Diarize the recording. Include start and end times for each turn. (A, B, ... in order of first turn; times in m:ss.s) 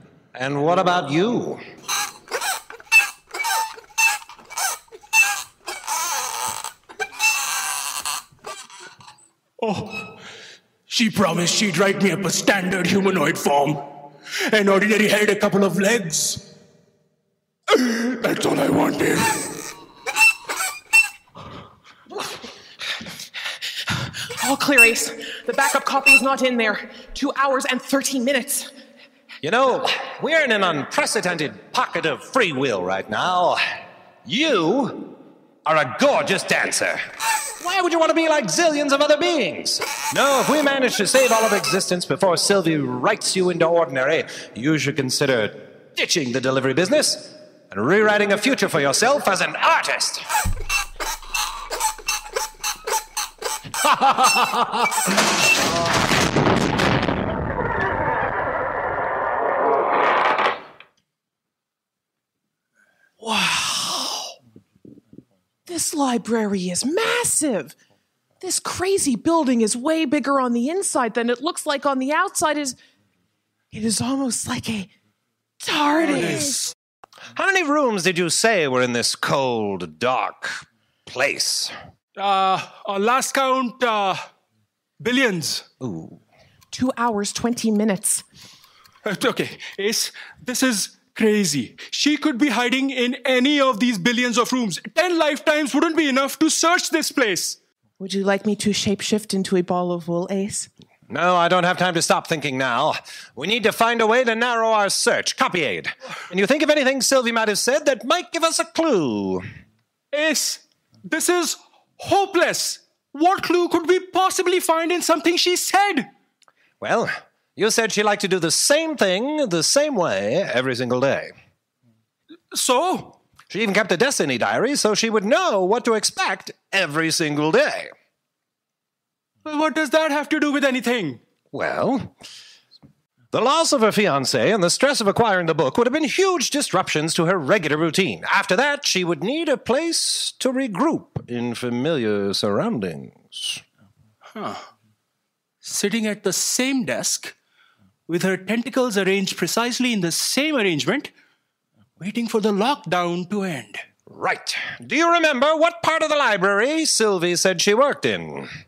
0:00.3-0:01.6 A
0:10.9-0:13.8 B
0:14.5-0:16.4 B
0:18.0-0:19.4 B
0:23.9-0:28.7 C
0:29.4-0:33.6 A
0:34.2-0:37.0 A
0:37.6-0:50.2 A
0:53.8-0:55.1 A
1:03.2-1:04.3 C
1:05.6-1:07.7 C
1:08.4-1:12.8 C
1:13.7-1:14.9 C
1:15.6-1:16.7 C
1:16.1-1:16.7 D
1:17.4-1:21.7 A
1:22.2-1:24.2 D
1:25.0-1:25.6 D
1:25.8-1:26.2 A
1:26.7-1:28.2 C
1:29.0-1:37.6 D
1:38.0-1:40.7 C
1:41.1-1:49.4 A
1:50.1-1:56.1 D
1:56.8-2:01.3 A
2:02.5-2:03.2 D
2:03.5-2:07.9 A
2:09.4-2:11.2 D
2:11.5-2:12.1 A
2:13.3-2:23.6 A
2:24.3-2:24.7 D
2:25.6-2:27.3 D
2:28.1-2:31.1 D
2:32.0-2:33.8 D
2:34.1-2:38.5 A